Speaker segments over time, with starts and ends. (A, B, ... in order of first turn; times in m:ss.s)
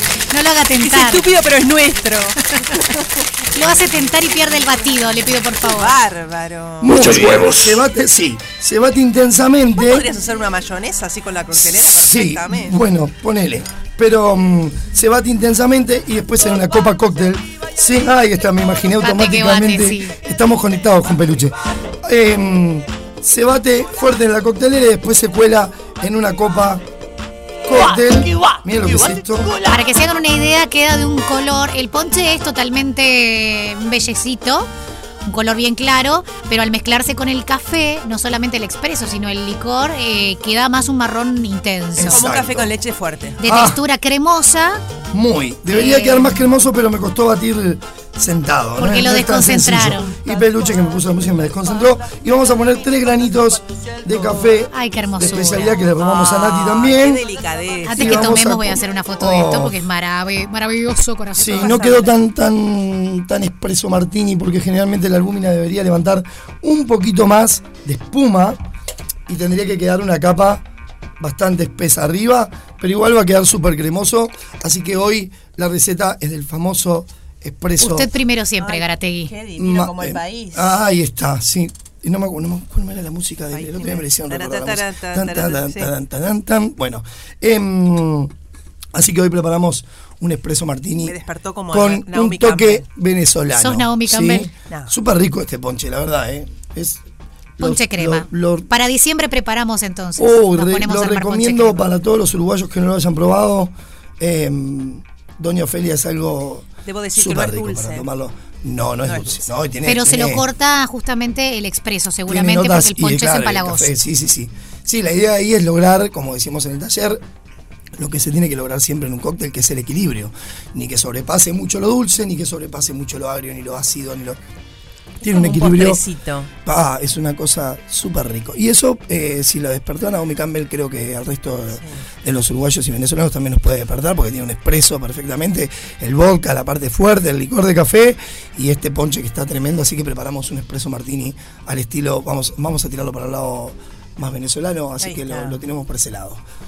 0:00.3-0:01.3 A
0:00.8-0:03.2 B
0:03.5-0:06.0 A
0:05.6-0:07.5 B
0:06.8-0:10.1 C
0:09.7-0:12.8 B
0:11.5-0:26.8 C
0:19.0-0:20.2 A
0:27.6-0:29.6 C
0:29.6-0:34.7 A
0:35.2-0:42.2 A
0:42.0-0:42.7 C
0:42.1-0:43.4 B
0:43.4-0:44.8 A
0:43.4-0:43.8 C
0:45.1-0:57.2 C
0:45.7-0:46.4 A
0:48.8-0:50.2 A
0:50.2-0:52.0 B
0:54.0-0:54.6 B
0:54.7-0:55.8 A
0:55.4-0:58.4 B
0:57.8-1:02.1 A
0:57.9-0:59.8 C
1:01.4-1:02.1 B
1:01.4-1:08.6 C
1:09.3-1:10.6 C
1:11.2-1:18.1 C
1:17.8-1:19.3 A
1:18.6-1:20.8 B
1:19.6-1:28.3 C
1:23.5-1:25.9 B
1:28.9-1:31.2 C
1:31.0-1:32.8 B
1:31.7-1:37.0 C
1:33.5-1:34.5 A
1:37.6-1:38.7 C
1:37.6-1:41.9 A
1:40.2-1:50.5 C
1:46.8-1:48.1 B
1:49.0-1:49.5 B
1:49.8-1:53.9 A
1:52.3-1:57.2 C
1:58.0-2:04.4 C
2:05.2-2:06.0 C
2:05.2-2:06.5 B
2:06.6-2:26.4 C
2:25.0-2:25.6 B